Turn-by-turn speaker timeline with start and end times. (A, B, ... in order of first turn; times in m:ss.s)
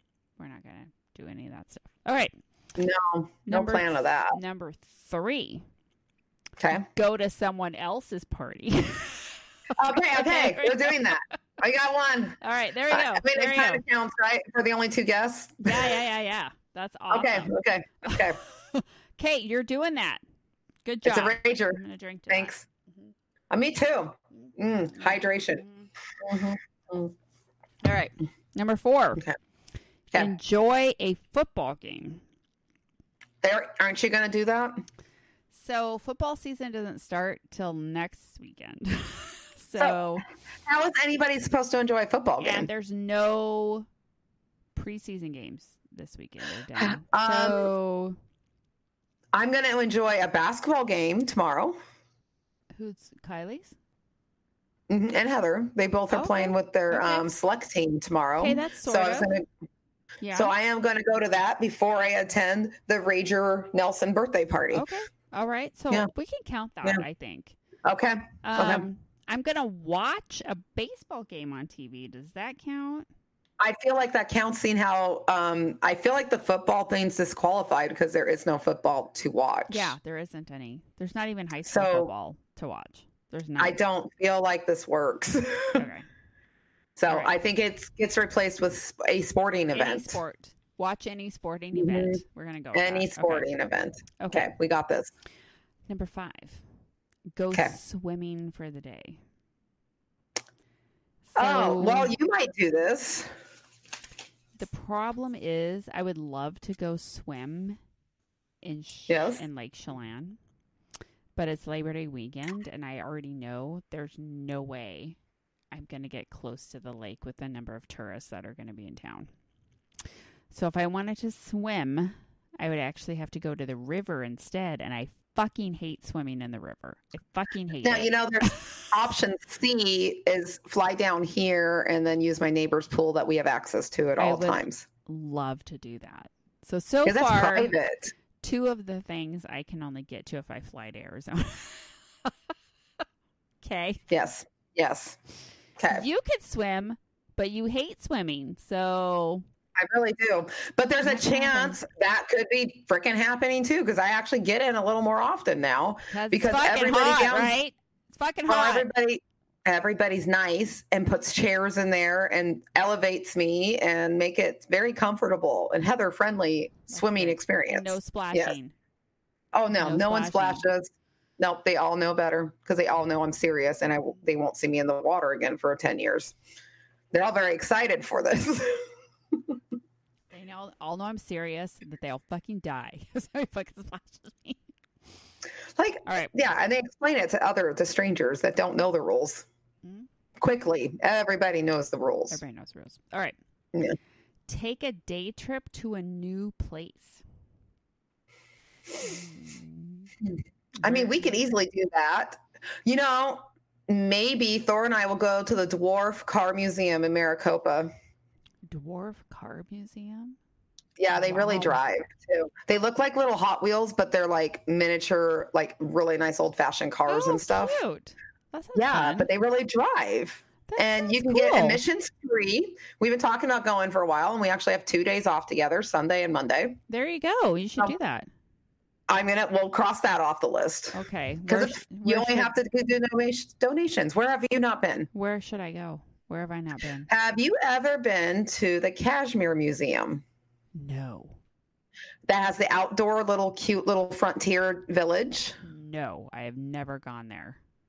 0:00.4-0:02.4 A
0:02.8-0:04.4 B
0:03.5-0:05.6 A
0:06.6-0:06.9 B
0:06.9-0:09.4 A
0:09.8-0:16.0 B
0:10.0-0:11.3 A
0:12.4-0:13.8 A
0:15.6-0:20.2 A
0:17.1-0:18.4 B
0:20.8-0:23.1 A
0:21.0-0:22.6 B
0:23.5-0:25.6 B
0:24.5-0:25.9 A
0:26.2-0:27.1 B
0:27.8-0:29.2 A
0:30.1-0:32.2 A
0:33.4-0:34.8 B
0:35.5-0:40.2 A
0:40.6-0:42.7 B
0:42.4-0:43.9 A
0:44.8-0:48.2 A
0:46.8-0:47.7 B
0:49.3-0:51.8 B
0:52.8-0:53.8 A
0:54.9-0:59.5 B
0:56.1-0:57.3 A
0:58.4-0:59.3 A
1:00.2-1:00.5 A
1:00.4-1:04.9 B
1:04.7-1:07.6 A
1:07.8-1:08.9 B
1:08.4-1:13.1 A
1:13.6-1:20.0 B
1:19.7-1:23.8 A
1:21.7-1:22.1 B
1:23.6-1:25.9 B
1:25.8-1:26.1 A
1:27.0-1:30.2 B
1:27.1-1:27.4 A
1:29.7-1:33.5 A
1:31.7-1:32.2 B
1:32.7-1:35.1 B
1:34.2-1:34.5 A
1:35.9-1:36.6 A
1:37.4-1:39.2 A
1:41.3-1:42.1 A
1:41.4-1:43.3 B
1:44.6-1:47.8 A
1:48.6-1:50.4 A
1:49.1-1:49.4 B
1:51.4-1:55.2 A
1:55.7-1:59.3 A
2:00.5-2:08.7 A
2:07.8-2:14.9 B
2:14.2-2:17.8 A
2:17.0-2:18.1 B
2:18.4-2:22.3 A
2:23.6-2:24.0 A
2:24.1-2:25.2 B
2:25.8-2:26.0 B
2:25.9-2:29.4 A
2:29.8-2:37.6 B
2:31.0-2:31.8 A
2:36.1-2:38.9 A
2:38.5-2:48.6 B
2:46.9-2:48.7 A
2:49.5-2:56.4 B
2:49.8-2:50.7 A
2:57.1-2:59.6 B
3:00.3-3:04.6 A
3:05.8-3:09.5 B
3:06.1-3:06.3 A
3:10.4-3:12.4 B
3:12.3-3:13.4 A
3:14.5-3:17.2 A
3:19.0-3:20.1 A
3:20.8-3:21.4 A
3:20.8-3:27.9 B
3:28.7-3:30.4 A
3:31.0-3:37.8 B
3:31.1-3:31.8 A
3:37.1-3:39.3 A
3:38.8-3:46.8 B
3:40.7-3:41.8 A
3:46.9-3:48.3 A
3:49.1-3:55.1 B
3:50.9-3:52.5 A
3:55.1-3:57.1 A
3:57.1-4:00.2 B
4:00.8-4:01.4 A
4:02.3-4:05.6 B
4:05.6-4:07.6 A